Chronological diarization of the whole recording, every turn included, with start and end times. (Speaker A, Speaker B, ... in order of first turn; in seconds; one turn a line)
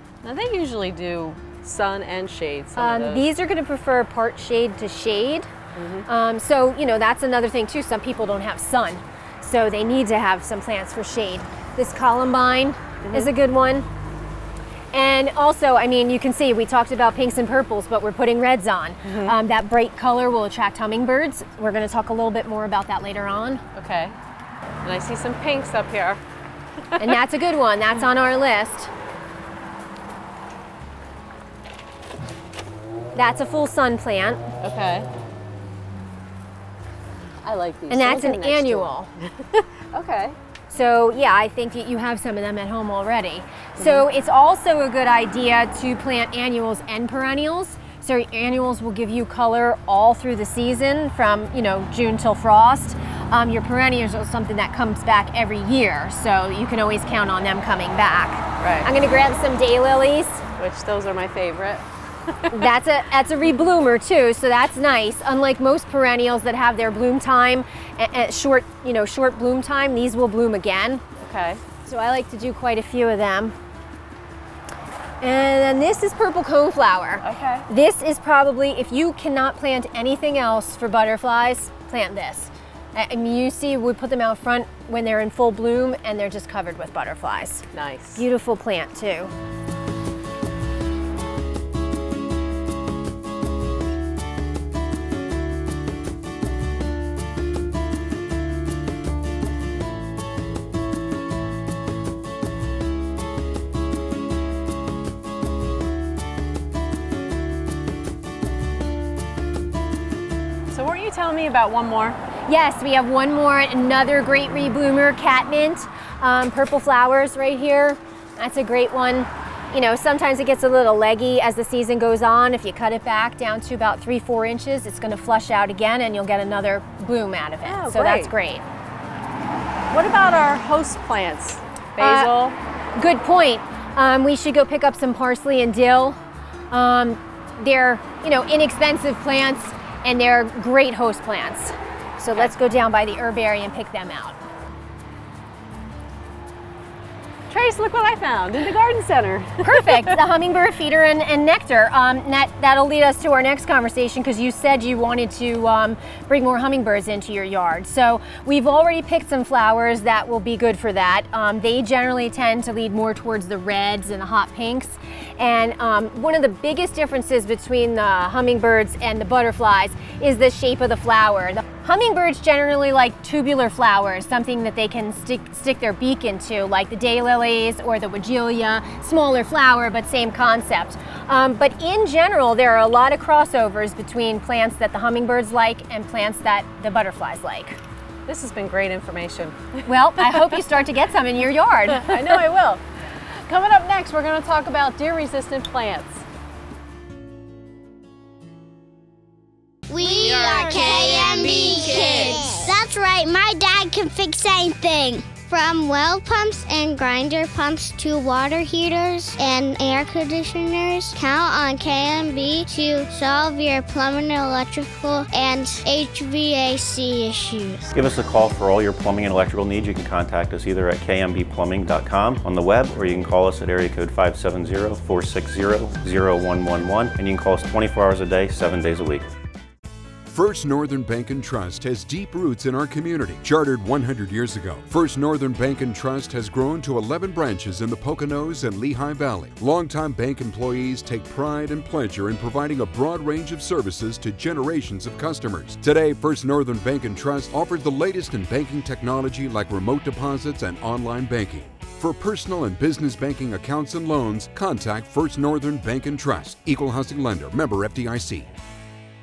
Speaker A: 0.2-3.3
Speaker B: 2.8-5.5
Speaker A: 5.8-6.1
Speaker B: 6.1-13.9
Speaker A: 13.0-13.3
Speaker B: 14.9-23.6
Speaker A: 19.0-19.4
Speaker A: 23.8-24.2
Speaker A: 24.8-26.2
Speaker B: 27.0-28.9
Speaker B: 33.1-34.4
Speaker A: 34.6-35.1
Speaker A: 37.4-40.4
Speaker B: 37.9-39.1
Speaker B: 40.7-60.4
Speaker A: 43.8-44.0
Speaker A: 58.6-58.9
Speaker A: 60.6-62.6
Speaker B: 62.5-71.0
Speaker A: 71.2-71.6
Speaker B: 71.8-73.5
Speaker B: 75.2-89.3
Speaker A: 77.2-77.7
Speaker A: 87.7-88.2
Speaker A: 110.7-112.2
Speaker B: 112.5-128.7
Speaker A: 127.7-128.3
Speaker A: 129.9-132.6
Speaker B: 132.0-132.3
Speaker B: 133.0-136.2
Speaker B: 136.7-144.4
Speaker A: 147.5-150.2
Speaker B: 149.6-187.8
Speaker A: 188.3-190.6
Speaker B: 189.9-192.3
Speaker A: 191.9-192.8
Speaker A: 193.5-196.2
Speaker C: 199.9-217.9
Speaker D: 217.9-229.3
Speaker E: 230.3-258.5